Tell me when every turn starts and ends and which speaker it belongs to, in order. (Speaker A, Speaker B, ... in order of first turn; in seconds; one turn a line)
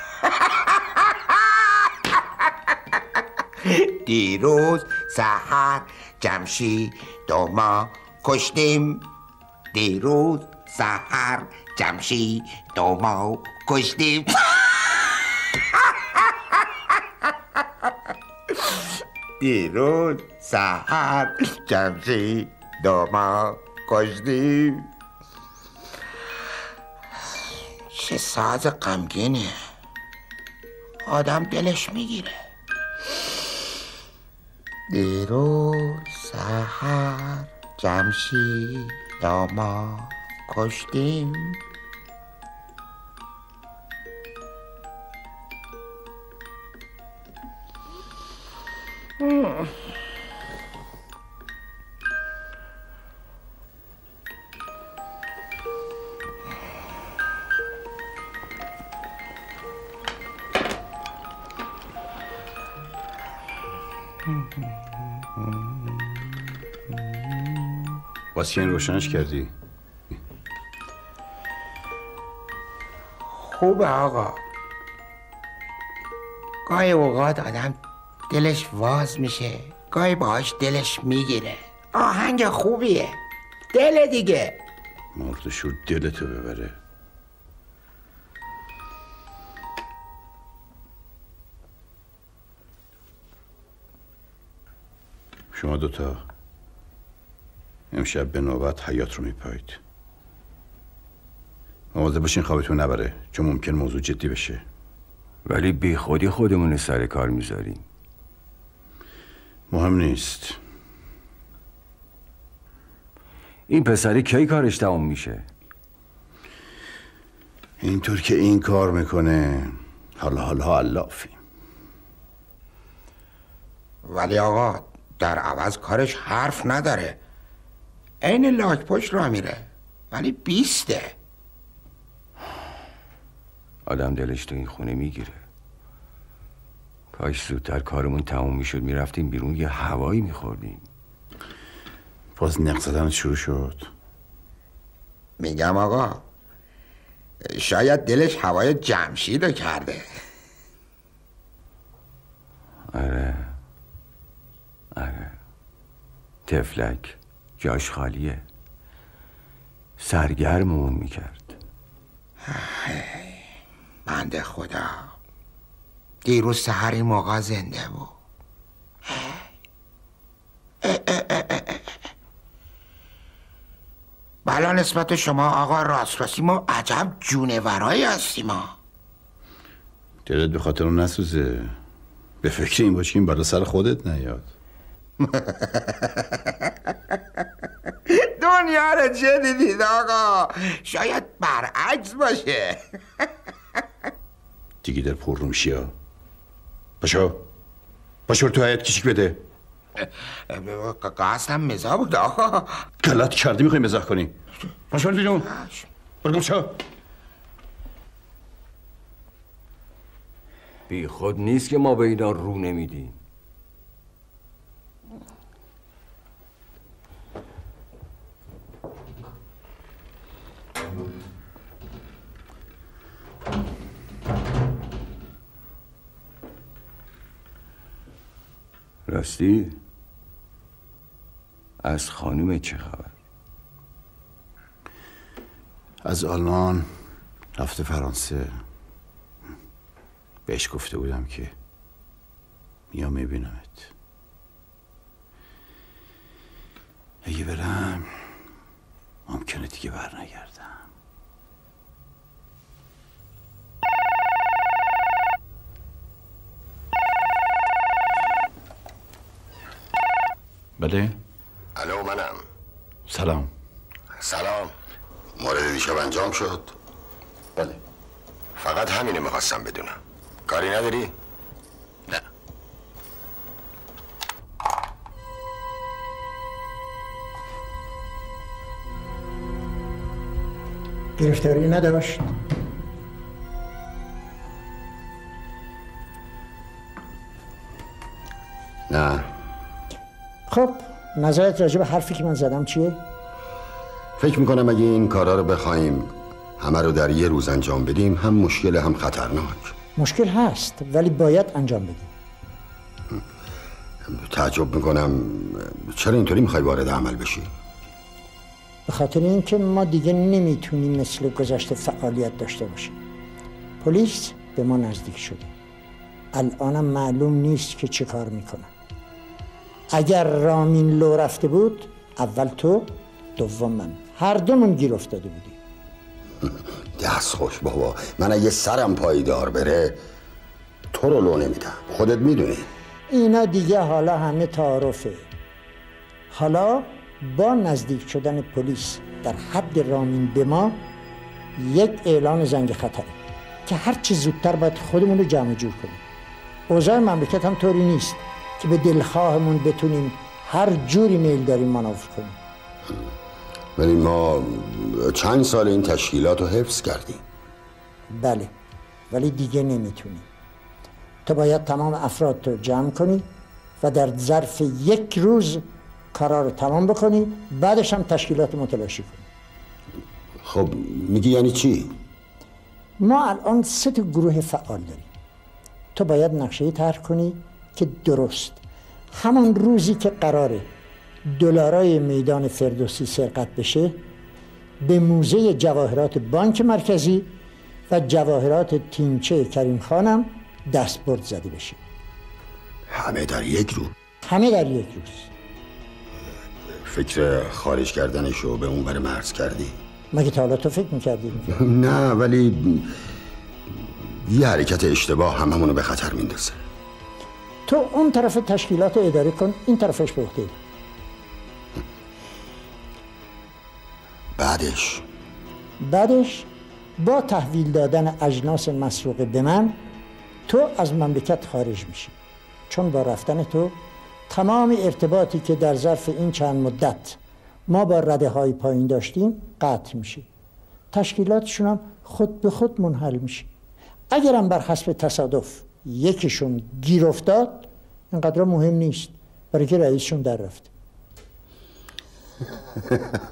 Speaker A: 0.2-1.6
Speaker A: 3.6-9.1
Speaker A: 9.7-15.1
Speaker A: 15.8-16.6
Speaker A: 19.4-24.9
Speaker A: 27.9-29.5
Speaker A: 31.1-32.3
Speaker A: 34.9-41.6
Speaker B: 68.3-69.5
Speaker A: 73.3-74.4
Speaker A: 76.7-77.8
Speaker A: 78.3-83.2
Speaker A: 83.7-84.6
Speaker B: 85.1-86.8
Speaker B: 95.5-96.2
Speaker B: 97.9-99.8
Speaker B: 101.9-104.6
Speaker C: 105.4-107.8
Speaker B: 109.7-110.6
Speaker C: 113.7-115.4
Speaker B: 117.8-121.4
Speaker A: 124.0-127.2
Speaker A: 128.2-131.1
Speaker C: 133.9-135.4
Speaker C: 137.1-140.8
Speaker B: 142.3-143.9
Speaker A: 145.4-146.2
Speaker A: 147.5-150.0
Speaker C: 152.9-153.6
Speaker C: 154.9-155.3
Speaker C: 156.4-158.4
Speaker C: 160.0-161.6
Speaker A: 162.5-163.4
Speaker A: 164.1-165.1
Speaker A: 166.2-168.1
Speaker A: 169.1-169.4
Speaker A: 170.8-171.9
Speaker A: 174.4-178.7
Speaker B: 180.2-181.8
Speaker B: 182.4-184.5
Speaker A: 185.3-186.3
Speaker A: 188.2-192.8
Speaker B: 194.8-195.9
Speaker B: 197.0-197.4
Speaker B: 198.3-199.4
Speaker A: 200.0-202.7
Speaker B: 203.0-204.3
Speaker B: 204.9-205.4
Speaker A: 205.4-205.9
Speaker B: 206.2-206.7
Speaker C: 210.9-213.2
Speaker C: 229.1-229.8
Speaker C: 231.8-233.1
Speaker B: 236.0-236.9
Speaker B: 237.6-238.6
Speaker B: 240.5-241.5
Speaker B: 242.9-243.9
Speaker B: 247.2-248.3
Speaker B: 249.3-250.8
Speaker B: 260.8-261.1
Speaker D: 261.8-262.4
Speaker B: 263.1-263.5
Speaker D: 264.2-264.7
Speaker D: 265.4-266.8
Speaker D: 268.6-271.1
Speaker E: 281.2-282.3
Speaker D: 288.9-289.2
Speaker E: 290.5-293.0
Speaker D: 294.2-299.7
Speaker E: 299.9-302.1
Speaker D: 304.1-307.5
Speaker E: 308.9-313.0
Speaker E: 313.8-315.5
Speaker E: 316.3-318.7
Speaker E: 319.9-325.6
Speaker D: 326.4-330.0
Speaker D: 330.9-332.7
Speaker E: 333.1-335.3
Speaker E: 336.3-340.8
Speaker E: 341.6-346.0
Speaker E: 346.7-352.4
Speaker D: 353.8-357.2
Speaker E: 358.1-358.5
Speaker E: 359.1-360.3
Speaker E: 361.2-363.3
Speaker E: 363.8-369.2
Speaker D: 370.4-371.9
Speaker E: 373.0-375.1
Speaker E: 375.9-378.6
Speaker E: 379.1-380.7
Speaker E: 381.2-384.0
Speaker E: 384.8-387.3
Speaker E: 387.9-391.8
Speaker D: 392.9-393.9
Speaker E: 394.2-395.3
Speaker D: 396.8-399.7
Speaker E: 400.1-401.5
Speaker D: 401.6-402.9
Speaker D: 404.2-406.6
Speaker E: 407.6-410.6
Speaker D: 414.4-415.0
Speaker E: 415.8-419.8
Speaker E: 420.5-422.1
Speaker E: 422.7-423.8
Speaker E: 424.3-430.3
Speaker E: 430.9-433.5
Speaker E: 434.1-440.7